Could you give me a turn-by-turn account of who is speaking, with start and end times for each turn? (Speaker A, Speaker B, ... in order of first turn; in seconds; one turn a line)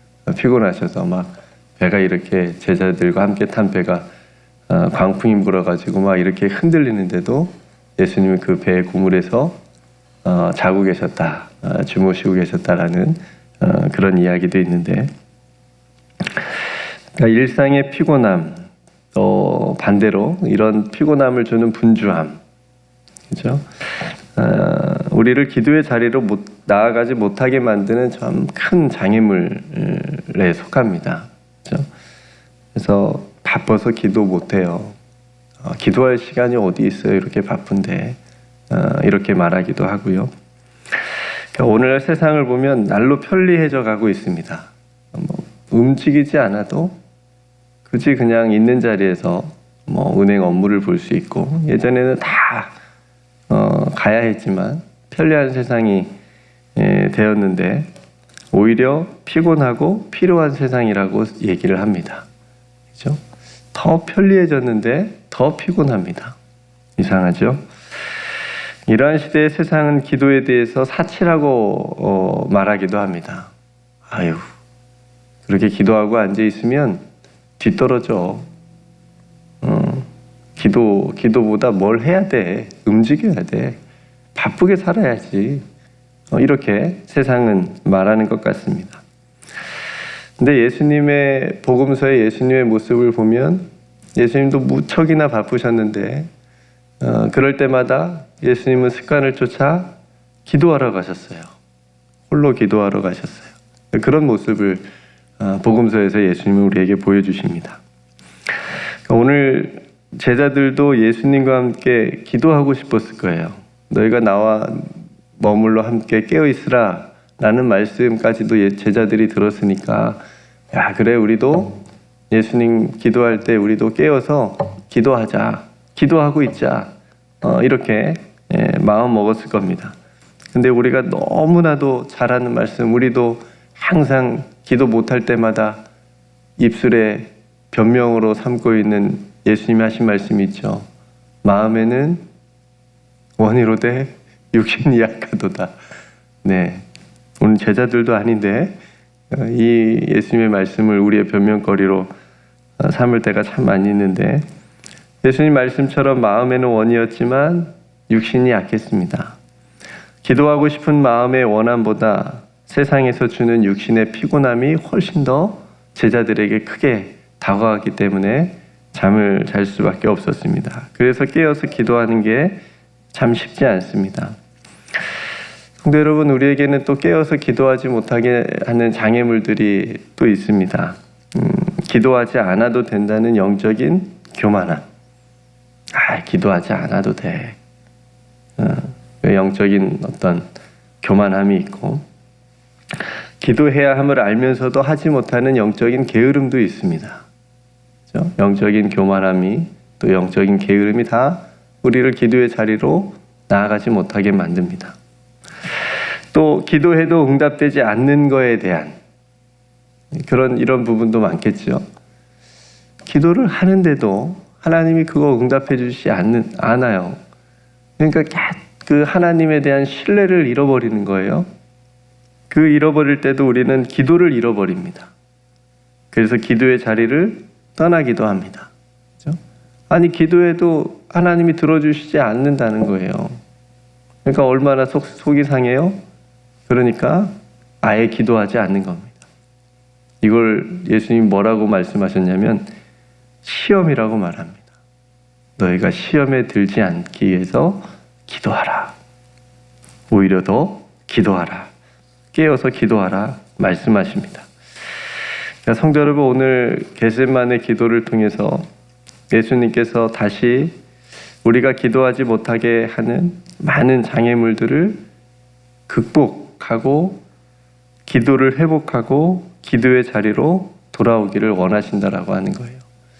Speaker A: 0.2-4.1
Speaker A: 4.7-9.6
Speaker A: 10.2-15.1
Speaker A: 17.1-22.4
Speaker A: 23.3-23.6
Speaker A: 24.3-31.9
Speaker A: 32.7-35.0
Speaker A: 35.6-38.2
Speaker A: 38.7-40.3
Speaker A: 41.5-47.0
Speaker A: 47.9-52.7
Speaker A: 53.5-56.1
Speaker A: 56.8-57.9
Speaker A: 58.5-62.2
Speaker A: 62.9-63.2
Speaker A: 63.7-66.4
Speaker A: 67.0-67.7
Speaker A: 68.9-73.5
Speaker A: 74.1-74.5
Speaker A: 75.5-77.0
Speaker A: 77.6-78.5
Speaker A: 79.6-83.8
Speaker A: 84.3-85.6
Speaker A: 86.3-89.0
Speaker A: 90.4-96.3
Speaker A: 97.0-99.9
Speaker A: 100.5-101.5
Speaker A: 102.3-104.8
Speaker A: 105.4-107.8
Speaker A: 109.1-120.2
Speaker A: 120.7-129.9
Speaker A: 130.5-135.8
Speaker A: 136.6-140.8
Speaker A: 141.4-142.2
Speaker A: 143.4-145.7
Speaker A: 146.4-146.8
Speaker A: 147.4-148.8
Speaker A: 149.3-152.1
Speaker A: 152.8-154.4
Speaker A: 155.2-159.4
Speaker A: 160.2-172.6
Speaker A: 173.1-174.3
Speaker A: 175.8-184.8
Speaker A: 185.9-187.6
Speaker A: 188.6-190.5
Speaker A: 191.0-192.0
Speaker A: 193.4-197.2
Speaker A: 198.1-204.9
Speaker A: 206.3-209.0
Speaker A: 210.1-211.8
Speaker A: 213.1-217.2
Speaker A: 218.0-221.5
Speaker A: 222.5-225.1
Speaker A: 226.1-228.7
Speaker A: 229.9-233.4
Speaker A: 234.2-236.0
Speaker A: 236.7-239.2
Speaker A: 240.2-242.7
Speaker A: 243.4-244.7
Speaker A: 245.6-248.9
Speaker A: 250.1-251.7
Speaker A: 252.3-254.4
Speaker A: 255.6-258.6
Speaker A: 259.3-260.8
Speaker A: 261.4-265.0
Speaker A: 265.9-267.2
Speaker A: 268.1-272.8